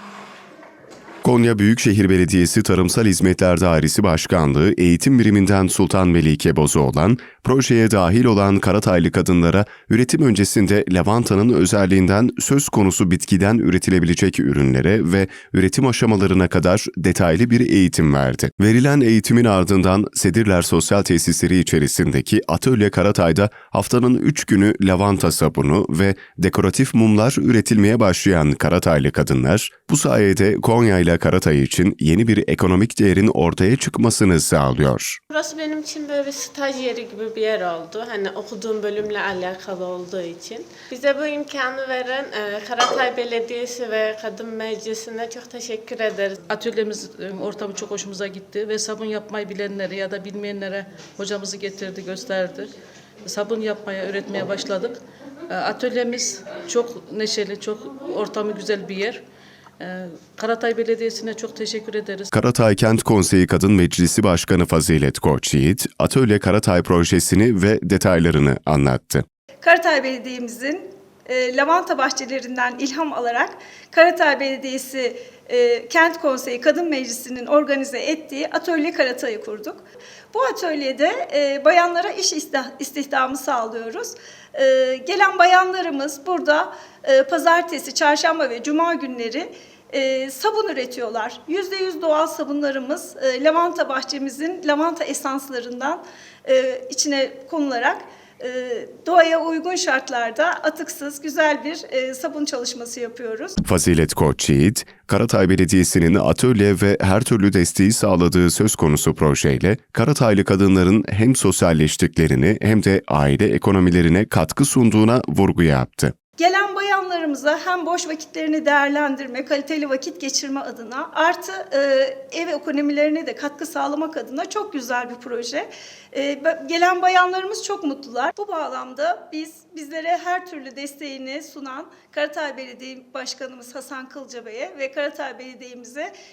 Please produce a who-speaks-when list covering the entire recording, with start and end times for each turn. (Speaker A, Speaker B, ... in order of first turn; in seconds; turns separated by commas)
Speaker A: 1.2-35.2, Speaker B: 35.4-46.4, Speaker C: 46.5-52.7, Speaker C: 53.2-55.0, Speaker C: 55.5-59.2, Speaker C: 59.8-62.3, Speaker A: 62.3-69.2, Speaker D: 69.6-79.8, Speaker D: 80.3-103.6, Speaker A: 103.6-116.1, Speaker D: 116.4-136.1